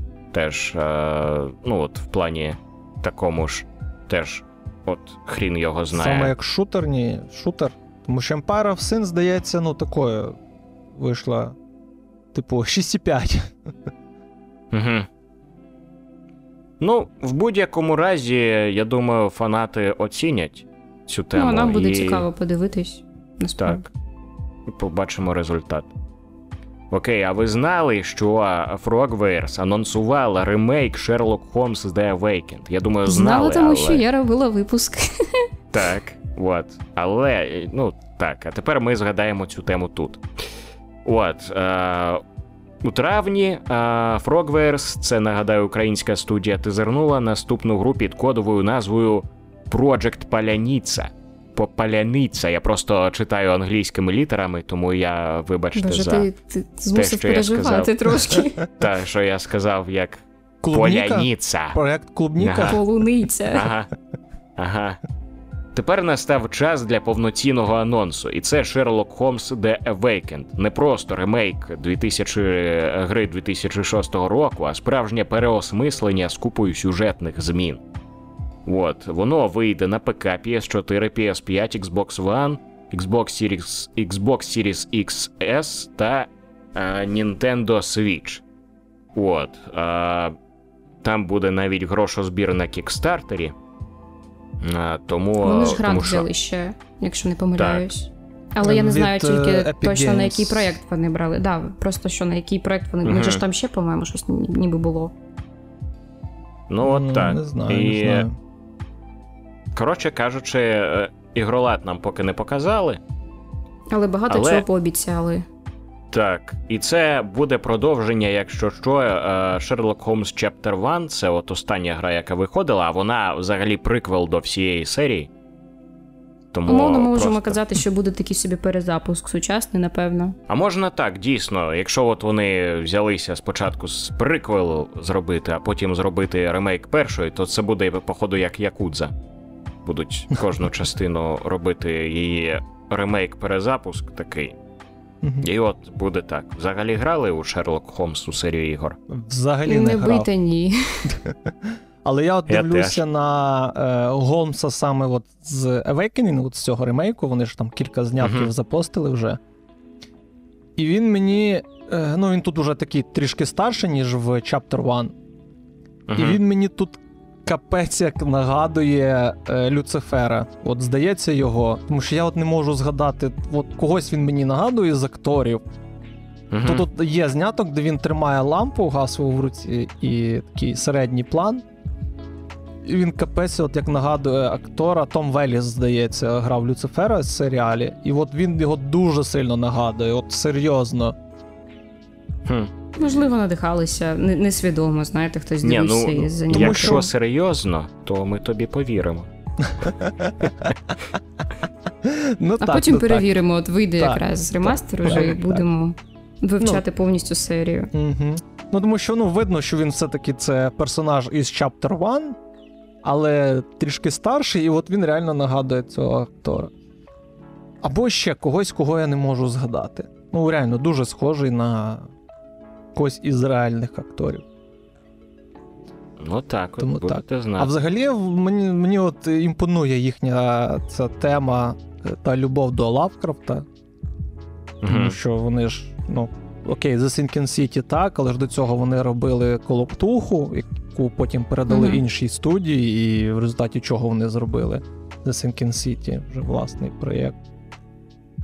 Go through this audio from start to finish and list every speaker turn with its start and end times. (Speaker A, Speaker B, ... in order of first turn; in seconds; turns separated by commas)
Speaker A: 0.3-6.3, Speaker B: 5.9-10.4, Speaker B: 10.9-11.6, Speaker B: 12.3-13.6, Speaker A: 14.7-15.1, Speaker A: 16.8-22.2, Speaker C: 21.3-23.8, Speaker A: 23.6-23.9, Speaker A: 24.7-25.9, Speaker A: 26.9-34.0, Speaker C: 33.0-35.5, Speaker A: 35.7-40.2, Speaker A: 41.0-42.2, Speaker A: 42.8-56.3, Speaker C: 55.7-58.6, Speaker A: 56.9-61.8, Speaker B: 60.6-62.8, Speaker A: 62.4-62.8, Speaker C: 62.7-63.7, Speaker A: 63.5-63.9, Speaker A: 64.6-65.0, Speaker A: 65.7-77.8, Speaker A: 78.7-88.4, Speaker A: 89.1-90.3, Speaker A: 91.0-93.5, Speaker A: 94.6-96.3, Speaker C: 95.4-105.1, Speaker A: 97.6-97.9, Speaker B: 98.6-100.8, Speaker A: 103.0-103.4, Speaker A: 106.7-108.3, Speaker B: 106.8-108.3, Speaker A: 109.7-113.0, Speaker C: 113.9-115.5, Speaker A: 114.3-114.6, Speaker A: 116.1-125.3, Speaker A: 126.5-127.6, Speaker C: 126.7-130.3, Speaker A: 130.5-139.1, Speaker A: 139.8-144.5, Speaker B: 145.2-145.5, Speaker A: 145.4-149.0, Speaker B: 149.1-150.3, Speaker C: 149.7-151.1, Speaker B: 151.1-159.4, Speaker A: 152.5-153.0, Speaker A: 158.2-158.5, Speaker B: 160.8-165.1, Speaker A: 166.1-166.4, Speaker B: 166.1-175.6, Speaker A: 176.5-176.8, Speaker B: 176.6-181.6, Speaker B: 182.8-191.2, Speaker A: 192.4-192.7, Speaker C: 193.0-197.1, Speaker A: 195.6-199.3, Speaker B: 196.5-197.1, Speaker B: 199.6-200.8, Speaker B: 202.0-203.3, Speaker C: 202.6-207.9, Speaker B: 204.0-205.7, Speaker B: 207.9-212.4, Speaker B: 213.0-216.7, Speaker B: 217.8-222.1, Speaker B: 222.9-224.4, Speaker A: 226.2-227.7, Speaker B: 226.8-233.7, Speaker A: 234.8-235.2, Speaker B: 234.9-247.4, Speaker C: 241.7-242.0